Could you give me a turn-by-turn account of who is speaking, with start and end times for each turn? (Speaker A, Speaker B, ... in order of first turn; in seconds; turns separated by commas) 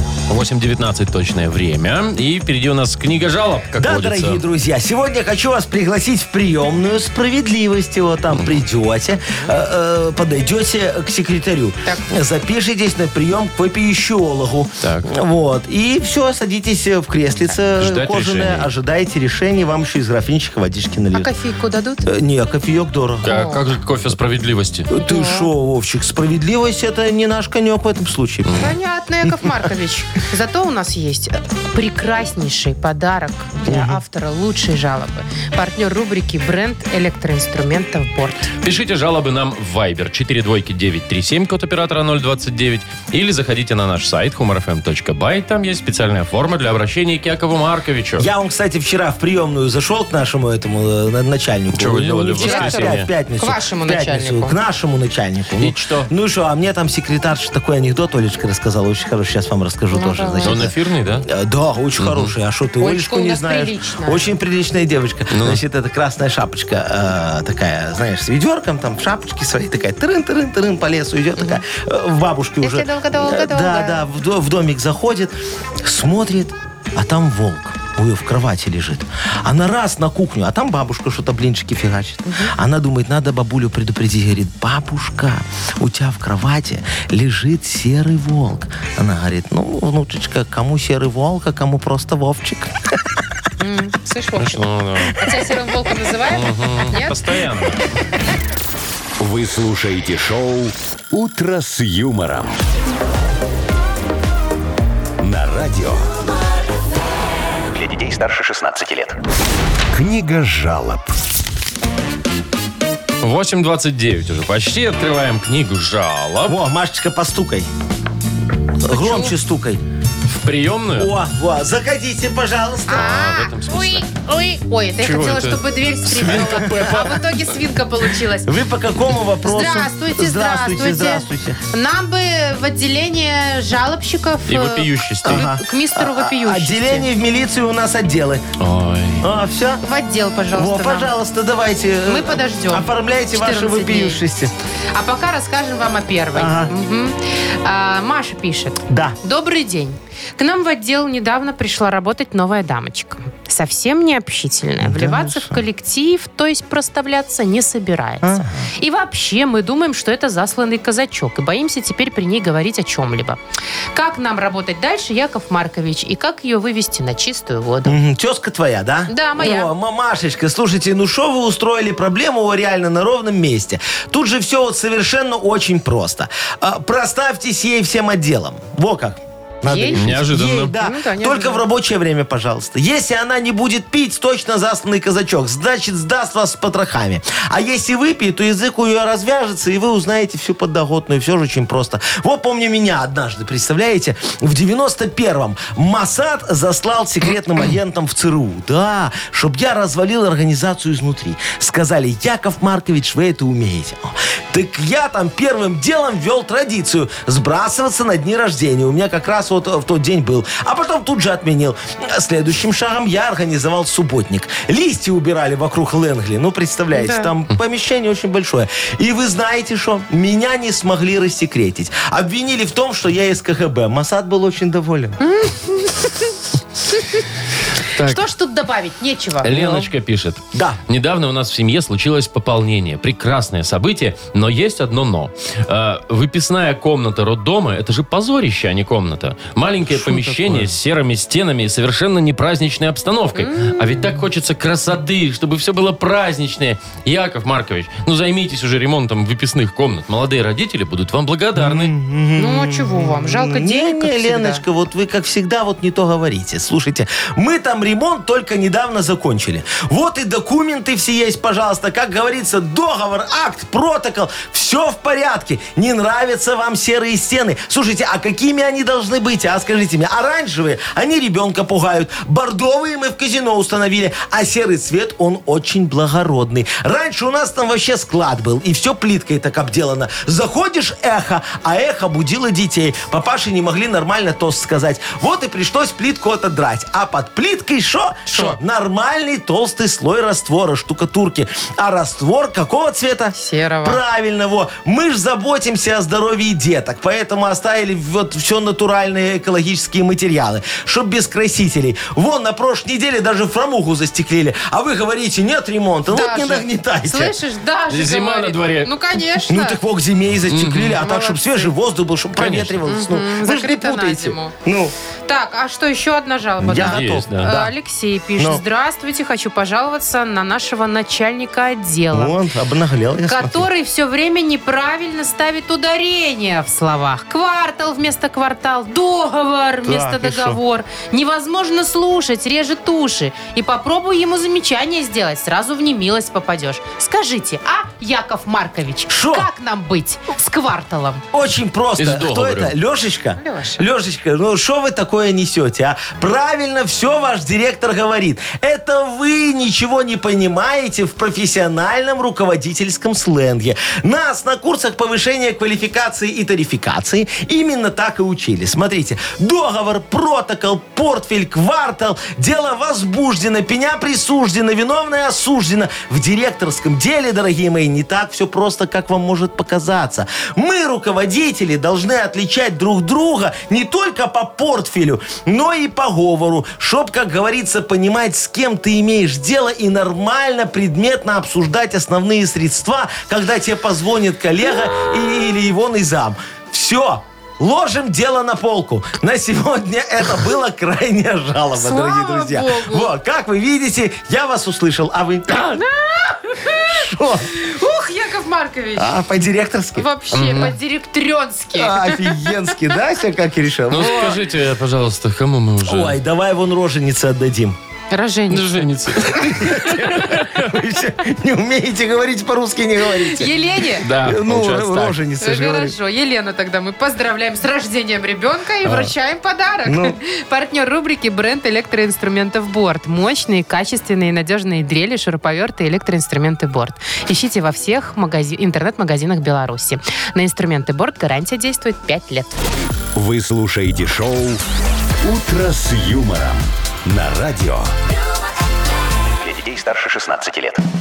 Speaker A: 0.3-4.4, Speaker B: 3.8-21.3, Speaker A: 14.8-15.1, Speaker A: 17.8-18.7, Speaker C: 21.1-22.1, Speaker B: 22.0-23.4, Speaker A: 23.2-24.9, Speaker C: 23.3-23.6, Speaker B: 24.9-28.6, Speaker C: 25.0-25.5, Speaker A: 28.5-28.7, Speaker C: 28.6-38.5, Speaker B: 29.2-29.6, Speaker B: 33.7-34.0, Speaker A: 38.6-48.3, Speaker B: 48.2-60.7, Speaker A: 51.7-53.1, Speaker C: 52.4-54.6, Speaker A: 55.6-56.1, Speaker C: 59.9-60.7, Speaker A: 60.4-61.3, Speaker B: 61.2-92.7, Speaker A: 62.0-62.3, Speaker C: 62.8-64.3, Speaker A: 65.3-65.6, Speaker C: 72.6-74.0, Speaker C: 82.2-82.5, Speaker C: 93.6-97.2, Speaker A: 94.4-95.2, Speaker A: 96.3-97.8, Speaker D: 99.2-102.6, Speaker D: 105.2-106.0, Speaker E: 107.7-109.2, Speaker D: 109.9-111.1, Speaker A: 113.2-116.6, Speaker B: 116.5-117.7, Speaker B: 118.8-119.8, Speaker C: 118.9-119.3, Speaker A: 120.3-121.1, Speaker B: 121.0-123.2, Speaker C: 122.9-128.5, Speaker A: 122.9-124.1, Speaker A: 125.0-127.2, Speaker B: 126.3-127.1, Speaker B: 128.4-131.6, Speaker C: 129.4-137.1, Speaker A: 134.5-135.5, Speaker B: 135.2-138.4, Speaker A: 138.6-139.2, Speaker B: 139.2-139.8, Speaker C: 139.8-141.1, Speaker B: 140.5-144.5, Speaker C: 142.1-144.2, Speaker C: 144.9-163.4, Speaker B: 146.3-146.7, Speaker B: 148.9-149.2, Speaker B: 154.8-155.6, Speaker B: 158.2-158.7, Speaker C: 163.9-168.0, Speaker B: 167.8-225.2, Speaker C: 169.1-169.7, Speaker C: 179.7-181.6, Speaker A: 179.9-180.7, Speaker C: 216.9-217.3, Speaker C: 225.2-226.3, Speaker A: 227.9-228.2, Speaker C: 228.0-229.5, Speaker A: 229.4-251.9, Speaker B: 229.5-229.9, Speaker B: 230.5-230.8, Speaker B: 239.9-240.7, Speaker C: 243.3-243.8, Speaker B: 251.6-307.4, Speaker C: 252.4-254.6, Speaker C: 288.3-288.6, Speaker C: 293.3-294.0, Speaker C: 306.1-309.8, Speaker A: 307.9-308.9, Speaker B: 309.5-314.9, Speaker A: 310.5-311.0, Speaker C: 311.0-311.7, Speaker A: 312.4-312.8, Speaker C: 312.9-314.5, Speaker C: 315.3-322.4, Speaker B: 316.6-317.7, Speaker A: 316.8-317.6, Speaker B: 322.1-323.7, Speaker C: 323.3-341.2, Speaker B: 329.9-330.6, Speaker B: 339.1-339.5, Speaker B: 341.3-395.8, Speaker A: 342.0-342.7, Speaker C: 343.4-343.9, Speaker C: 391.8-393.1, Speaker C: 395.5-399.2, Speaker B: 396.8-397.5, Speaker B: 399.0-400.7, Speaker C: 399.9-402.5, Speaker A: 400.3-400.8, Speaker B: 401.8-404.4, Speaker A: 403.9-406.2, Speaker B: 405.9-407.8, Speaker C: 408.1-408.9, Speaker A: 408.5-410.7, Speaker B: 409.3-416.0, Speaker C: 413.2-414.1, Speaker A: 414.0-415.2, Speaker C: 415.4-432.6, Speaker B: 418.8-419.1, Speaker B: 419.9-420.2, Speaker E: 433.2-434.3, Speaker D: 433.2-434.6, Speaker D: 435.2-436.6, Speaker D: 437.1-437.7, Speaker E: 437.2-437.9, Speaker E: 439.4-440.8